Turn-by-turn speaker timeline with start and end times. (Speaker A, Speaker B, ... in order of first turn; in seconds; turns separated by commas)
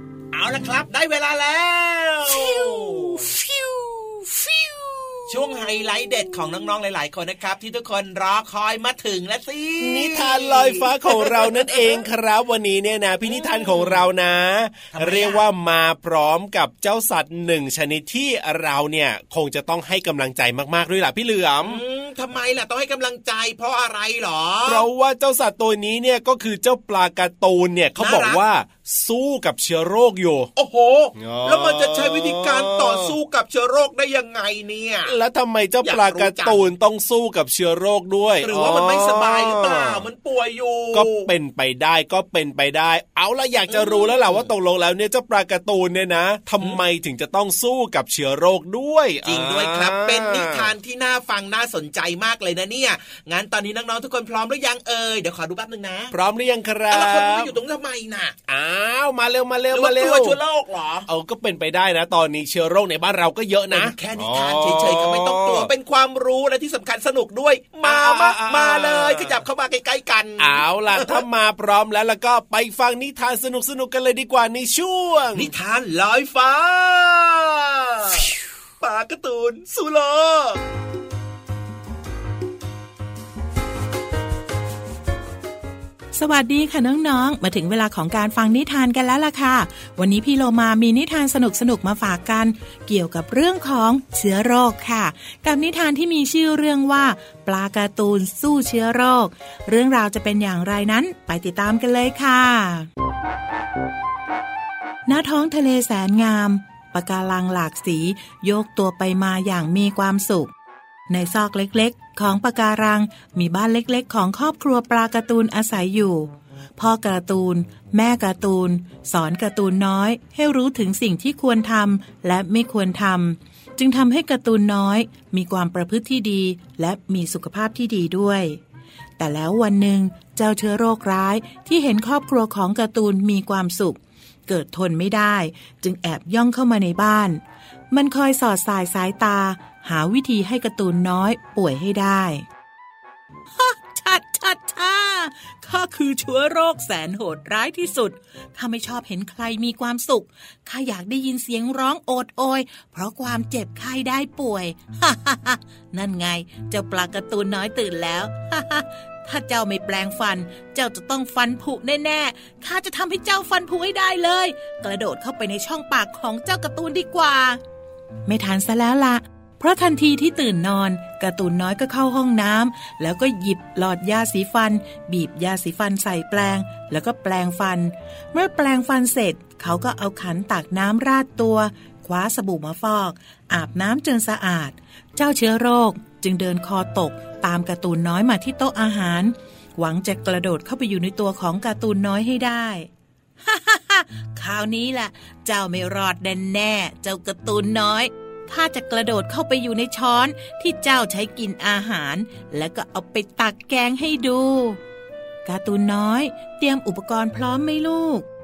Speaker A: 0.3-3.3, Speaker B: 2.2-6.6, Speaker A: 5.3-11.9, Speaker B: 9.8-21.8, Speaker A: 13.2-14.0, Speaker A: 14.9-15.4, Speaker A: 21.6-24.9, Speaker B: 24.6-30.5, Speaker A: 28.0-28.4, Speaker A: 30.6-35.1, Speaker B: 31.1-33.1, Speaker B: 35.0-40.0, Speaker A: 35.8-36.6, Speaker A: 38.4-41.3, Speaker B: 40.9-50.7, Speaker A: 43.7-44.5, Speaker A: 49.2-56.1, Speaker B: 56.1-57.5, Speaker A: 56.9-58.3, Speaker B: 58.5-60.4, Speaker A: 59.7-61.1, Speaker B: 61.1-65.7, Speaker A: 63.7-71.2, Speaker B: 67.8-69.4, Speaker B: 70.4-75.5, Speaker A: 75.3-78.2, Speaker A: 78.8-80.6, Speaker C: 86.1-102.9, Speaker C: 105.0-110.5, Speaker C: 111.1-128.6, Speaker C: 129.2-142.4, Speaker C: 143.6-167.6, Speaker C: 168.3-192.9, Speaker C: 193.4-204.8, Speaker C: 205.4-208.2